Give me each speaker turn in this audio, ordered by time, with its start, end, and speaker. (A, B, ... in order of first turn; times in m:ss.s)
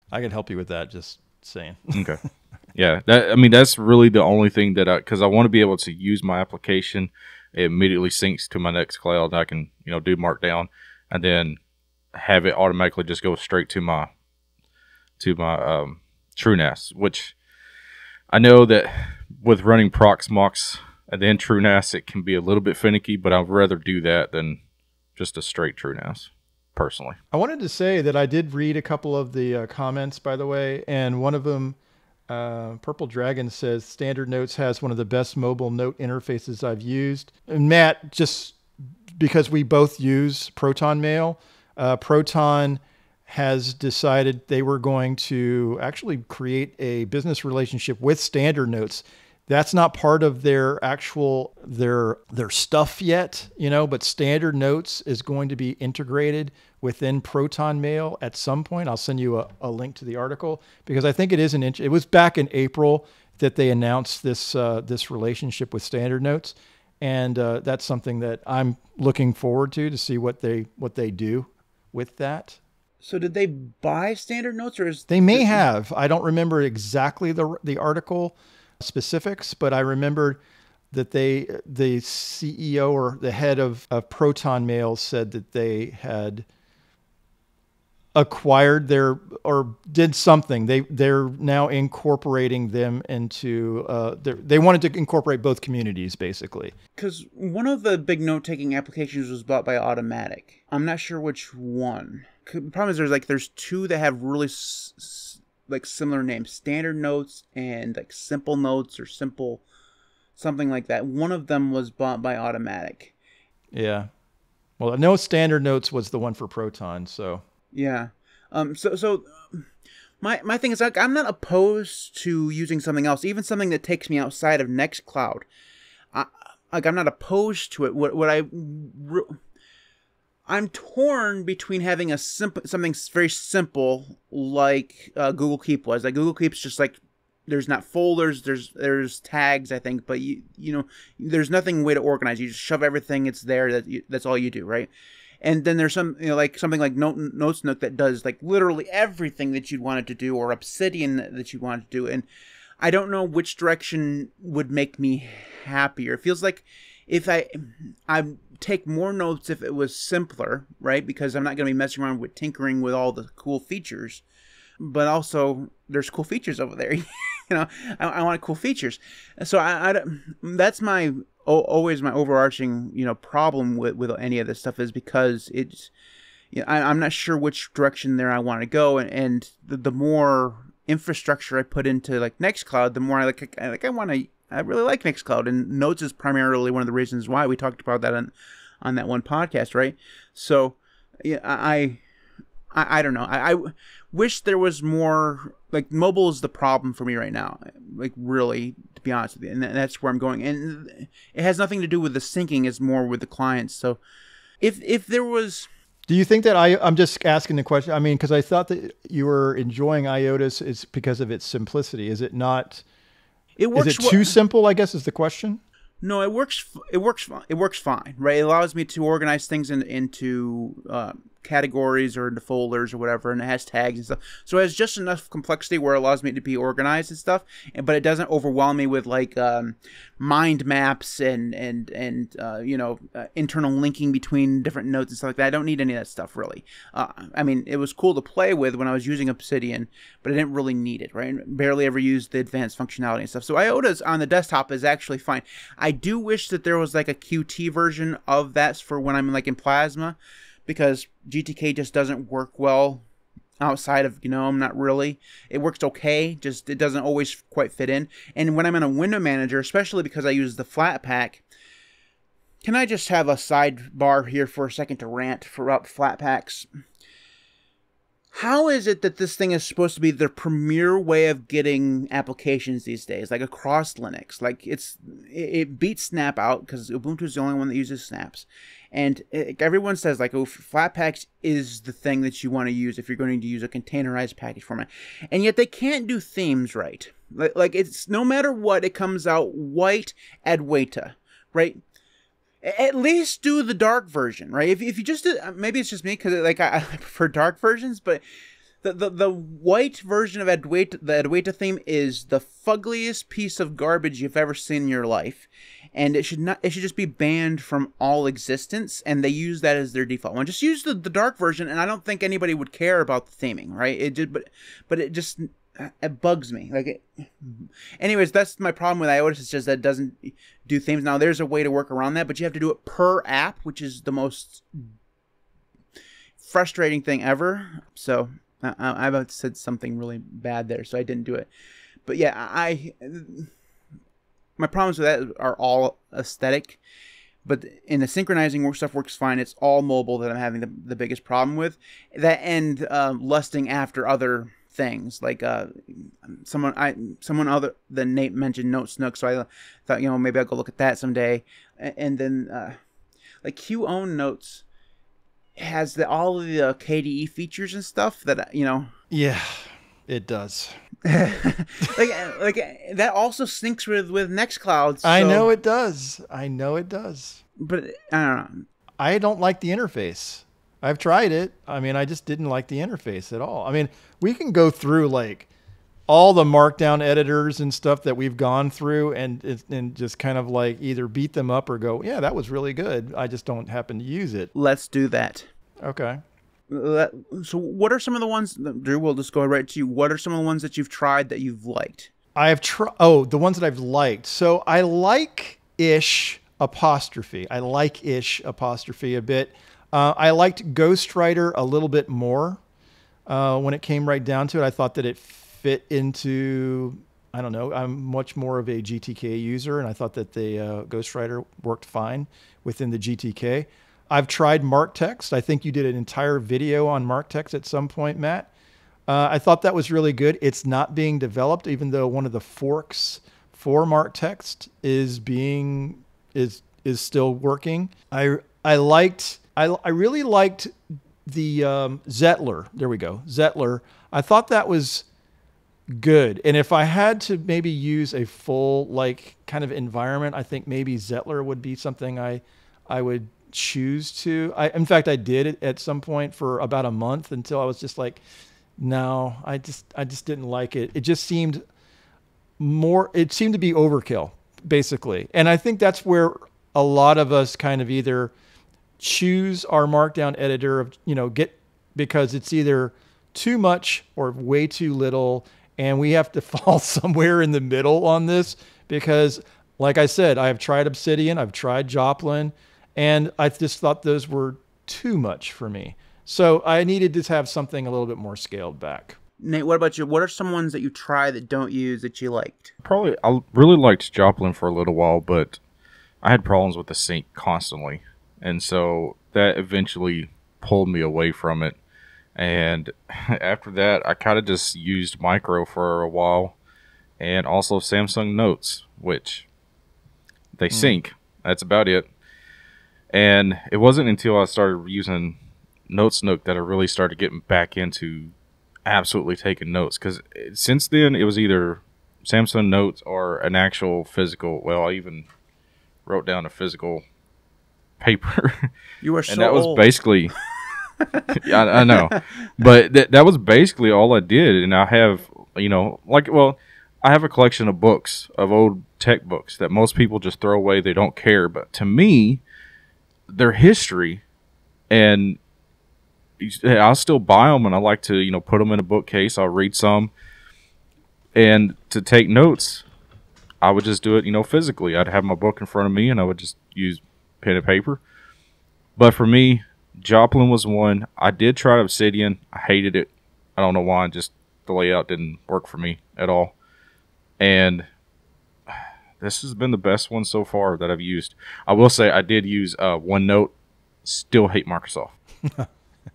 0:00.1-0:02.2 A
0:02.7-0:11.6 B
0:12.1-0:14.1 B
0:15.2-0:17.3 B
0:18.3-0:24.6 B
0:25.2-0:27.2 B
0:27.3-0:31.8 A
0:32.3-0:38.6 A
0:39.2-1:12.6 A
1:13.0-1:15.6 C
1:15.1-1:20.4 A
1:20.9-1:26.4 A
1:28.1-1:36.7 A
1:37.0-1:49.6 C
1:50.4-1:53.1 C
1:53.7-1:54.1 A
1:54.8-1:57.4 A
1:57.7-1:59.7 C
2:00.2-2:05.4 C
2:06.1-2:09.4 C
2:10.5-2:24.9 C
2:25.4-2:32.2 C
2:32.8-2:44.2 C
2:44.8-2:55.9 C
2:56.5-3:08.3 C
3:08.8-3:12.0 C
3:12.7-3:24.0 C
3:24.6-3:25.7 C
3:26.1-3:32.8 A
3:33.6-3:34.4 C
3:33.7-3:35.6 A
3:36.0-4:13.0 C
4:13.6-4:21.4 C
4:22.6-4:26.7 C
4:28.3-4:51.8 C
4:52.6-4:58.2 C
4:58.8-5:24.9 C
5:26.4-5:31.5 C
5:32.0-5:33.5 C
5:34.6-5:36.8 C
5:37.4-5:52.8 C
5:53.4-5:54.6 C
5:55.6-5:58.9 C
5:59.1-6:00.7 A
6:01.0-6:05.5 C
6:05.0-6:07.4 A
6:07.6-6:08.7 C
6:09.0-6:15.5 A
6:16.1-6:24.5 A
6:24.5-6:25.5 C
6:25.8-6:26.2 A
6:26.7-6:32.1 C
6:32.3-6:42.6 A
6:43.3-6:58.5 A
6:59.1-7:15.0 A
7:15.9-7:28.2 A
7:28.8-7:31.6 A
7:32.6-7:38.3 A
7:39.0-7:59.2 A
7:59.4-8:02.7 C
8:02.8-8:05.6 B
8:06.2-8:11.8 B
8:12.4-8:16.6 B
8:17.2-8:19.5 B
8:20.6-8:22.1 B
8:20.7-8:21.0 A
8:23.1-8:25.4 B
8:25.9-8:28.3 B
8:28.8-8:35.2 B
8:36.0-8:37.0 B
8:38.0-8:38.7 B
8:39.0-8:39.9 C
8:39.3-8:40.3 B
8:40.6-8:42.2 C
8:41.4-8:52.4 B
8:53.3-8:54.2 B
8:54.9-8:55.4 B
8:56.4-9:00.1 B
9:01.3-9:02.8 B
9:03.6-9:08.0 B
9:09.0-9:16.5 B
9:17.4-9:17.8 B
9:19.2-9:23.5 B
9:24.0-9:25.2 B